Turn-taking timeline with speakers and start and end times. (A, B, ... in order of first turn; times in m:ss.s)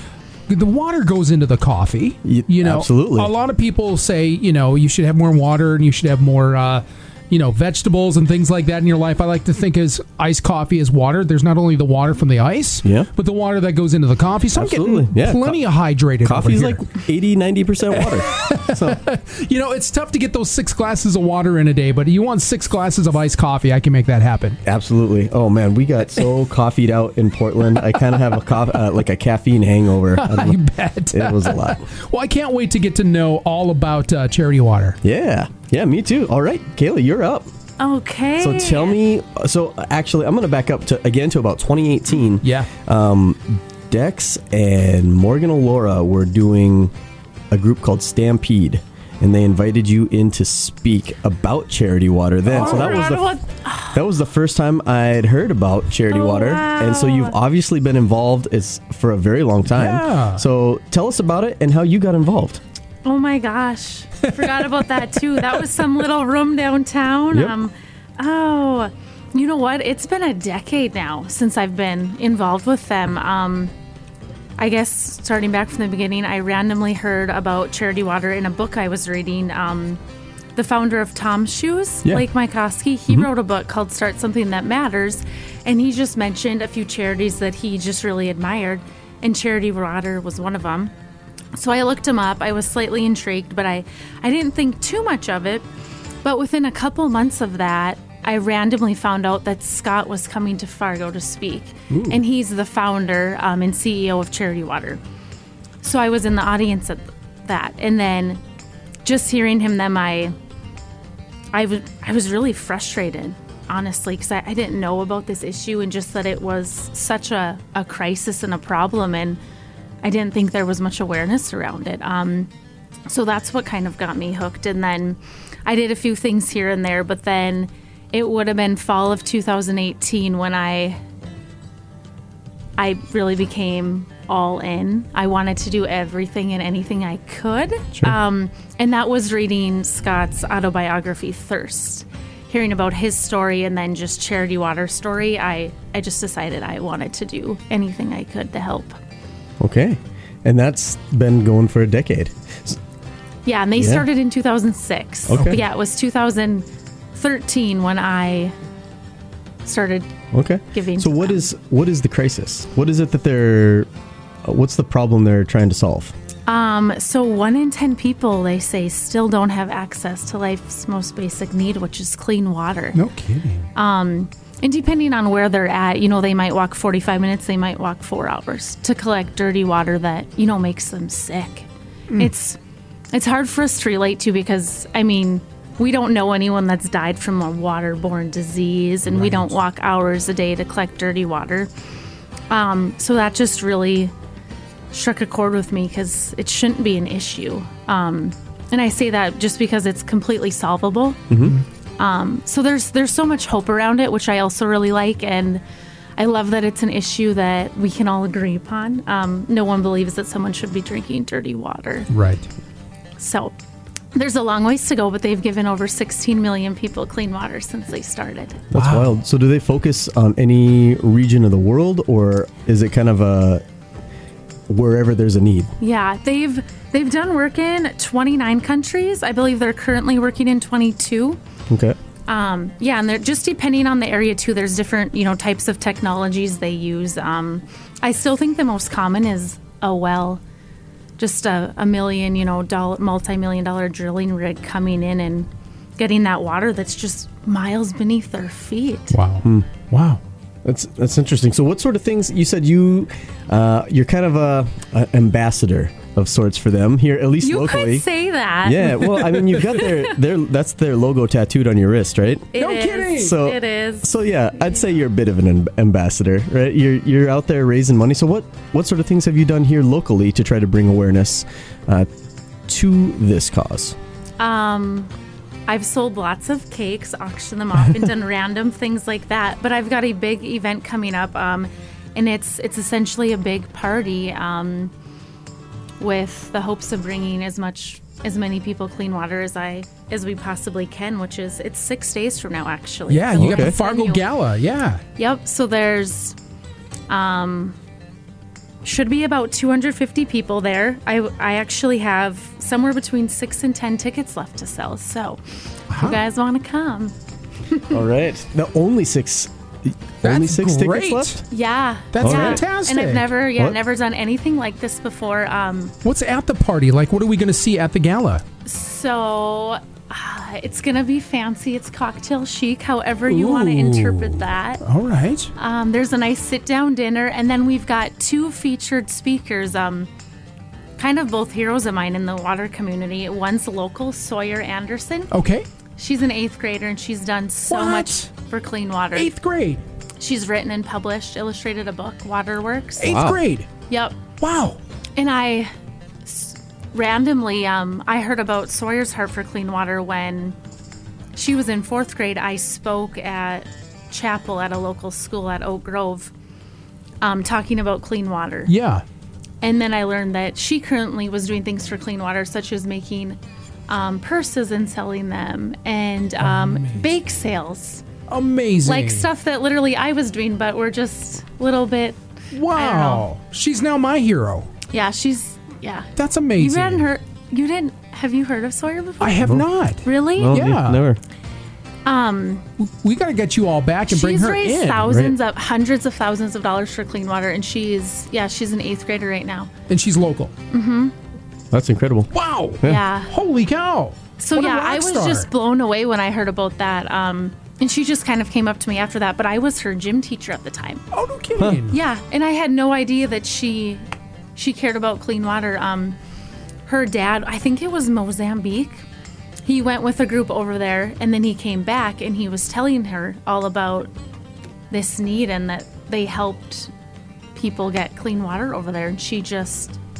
0:00.5-0:16.8 A
0:02.2-0:03.3 B
0:14.5-0:15.6 B
0:16.2-0:19.0 B
0:17.9-0:24.6 A
0:24.6-0:30.6 B
0:30.1-0:35.0 A
0:31.1-0:31.8 B
0:35.0-0:37.5 B
0:37.8-0:39.0 C
0:38.4-0:46.9 B
0:42.4-0:42.7 A
0:47.5-0:53.4 B
0:52.5-0:53.0 A
0:52.5-0:54.0 C
0:53.9-1:02.6 B
0:56.1-0:57.3 C
0:59.7-1:00.4 A
1:03.0-1:13.7 C
1:04.2-1:04.6 A
1:07.3-1:07.6 B
1:14.6-1:20.0 C
1:20.6-1:30.9 C
1:31.5-1:35.6 C
1:36.2-1:45.0 C
1:41.9-1:42.2 A
1:45.8-1:48.4 C
1:49.0-1:50.3 C
1:51.5-1:59.4 C
2:00.0-2:02.5 C
2:03.1-2:11.0 C
2:12.8-2:28.9 C
2:29.6-2:32.8 B
2:33.4-2:38.5 C
2:33.8-2:34.0 B
2:35.3-2:35.6 B
2:39.6-2:40.1 C
2:40.3-2:43.9 B
2:40.7-2:41.4 C
2:44.4-2:46.1 B
2:46.5-2:53.0 C
2:52.9-2:53.7 A
2:53.7-3:02.6 C
3:03.1-3:11.7 C
3:12.5-3:14.1 C
3:14.9-3:21.3 C
3:21.3-3:21.6 B
3:22.0-3:25.6 C
3:26.2-3:32.1 C
3:32.1-3:32.5 A
3:33.2-3:33.5 C
3:34.1-3:38.7 C
3:38.7-3:43.6 B
3:38.7-3:39.2 A
3:44.7-3:45.7 B
3:45.8-3:51.4 C
3:51.7-3:52.0 B
3:52.3-4:00.4 C
4:01.2-4:09.2 C
4:09.1-4:10.2 A
4:10.6-4:18.0 B
4:17.4-4:20.0 C
4:18.6-4:22.5 B
4:22.5-4:24.1 C
4:22.5-4:23.4 A
4:23.1-4:32.1 B
4:32.7-4:34.0 B
4:34.4-4:35.1 C
4:35.7-4:44.9 C
4:46.0-4:54.2 C
4:53.1-4:55.0 A
4:53.4-4:53.7 B
4:55.2-4:56.4 C
4:57.1-4:57.8 C
4:58.8-5:05.4 C
5:05.9-5:06.2 A
5:05.9-5:07.1 C
5:07.7-5:08.0 C
5:07.9-5:11.4 B
5:10.2-5:11.4 A
5:11.5-5:15.9 C
5:12.1-5:13.3 A
5:12.2-5:12.6 B
5:16.0-5:18.4 A
5:18.6-5:24.8 C
5:23.3-5:25.5 A
5:25.6-5:30.1 C
5:31.0-5:35.3 C
5:35.3-5:35.7 A
5:36.0-5:39.3 C
5:37.7-5:38.3 A
5:39.1-5:39.8 A
5:40.2-5:43.2 C
5:43.0-5:43.7 A
5:43.0-5:43.4 B
5:43.9-5:44.2 C
5:44.4-5:44.8 A
5:45.2-5:45.7 C
5:46.2-5:50.6 C
5:51.3-5:56.3 C
5:57.2-5:58.7 C
5:58.7-5:59.0 A
5:59.6-6:03.4 C
6:03.9-6:08.0 C
6:06.4-6:07.1 A
6:08.3-6:09.3 A
6:08.8-6:12.2 C
6:12.5-6:14.7 A
6:12.7-6:13.2 C
6:14.9-6:19.5 C
6:16.2-6:17.1 A
6:19.2-6:21.0 A
6:20.0-6:20.6 C
6:20.4-6:21.2 B
6:22.0-6:22.6 C
6:22.8-6:25.2 A
6:24.1-6:29.7 C
6:25.1-6:25.3 B
6:29.9-6:30.5 A
6:30.7-6:31.1 C
6:31.7-6:32.3 B
6:32.3-6:35.5 A
6:32.8-6:33.3 C
6:34.4-6:41.0 C
6:41.1-6:42.0 A
6:41.9-6:44.0 C
6:44.6-6:46.2 C
6:46.9-6:49.0 C
6:49.6-6:54.1 C
6:54.9-6:56.9 C
6:57.5-7:00.0 C